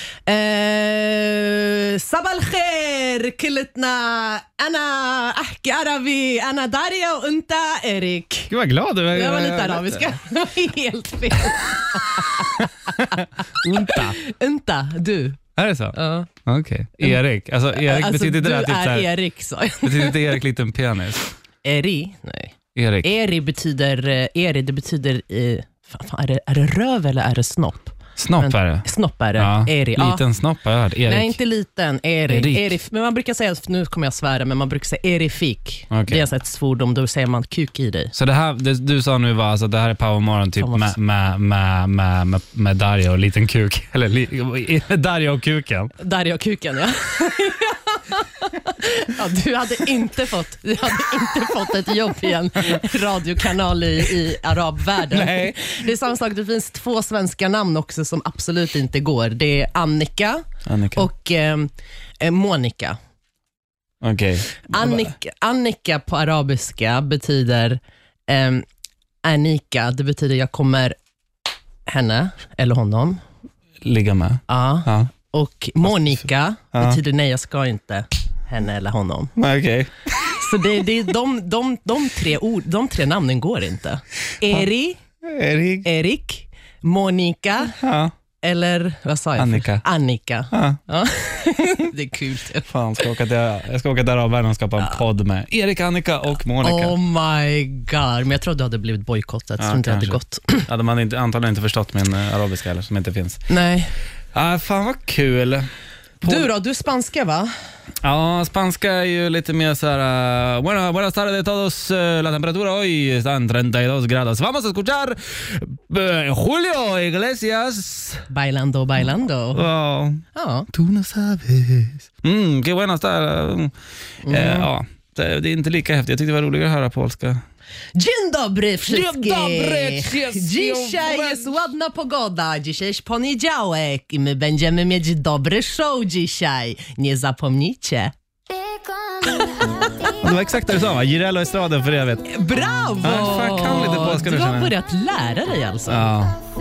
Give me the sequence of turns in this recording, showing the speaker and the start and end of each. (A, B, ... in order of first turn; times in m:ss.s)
0:00.3-0:08.5 A
0:08.5-0:10.2 B
0:09.1-0:13.0 A
0:11.6-0:14.2 B
0:13.6-0:15.4 A
0:15.6-0:19.1 B
0:15.9-0:16.3 A
0:17.7-0:20.4 A
0:19.8-0:21.3 B
0:21.6-0:30.2 A
0:22.8-0:23.1 B
0:28.2-0:31.4 B
0:31.0-0:38.1 A
0:32.3-0:32.7 B
0:35.9-0:36.2 B
0:38.2-0:45.9 B
0:40.6-0:40.9 A
0:46.0-1:00.4 A
0:55.0-0:55.7 B
1:00.6-1:01.1 B
1:01.0-1:03.0 A
1:04.0-1:05.1 B
1:04.7-1:08.7 A
1:09.2-1:11.0 A
1:11.9-1:13.2 A
1:13.8-1:15.1 B
1:14.5-1:19.3 A
1:16.7-1:17.0 B
1:19.4-1:20.4 B
1:20.3-1:25.0 A
1:25.2-1:25.9 B
1:25.8-1:27.7 A
1:27.6-1:28.1 B
1:28.4-1:33.1 A
1:29.4-1:29.8 B
1:30.5-1:30.8 B
1:32.7-1:37.0 B
1:36.6-1:40.7 A
1:39.6-1:43.4 B
1:43.5-1:43.9 A
1:44.3-1:45.7 B
1:46.2-1:46.5 B
1:46.2-1:47.5 A
1:48.0-1:58.3 B
1:58.3-1:59.7 A
1:59.5-2:03.7 B
2:00.4-2:00.7 A
2:04.2-2:04.7 A
2:04.3-2:07.4 B
2:08.0-2:18.1 A
2:08.9-2:11.6 B
2:19.2-2:20.1 A
2:20.2-2:22.3 B
2:22.3-2:26.1 A
2:23.0-2:24.7 B
2:25.9-2:26.4 B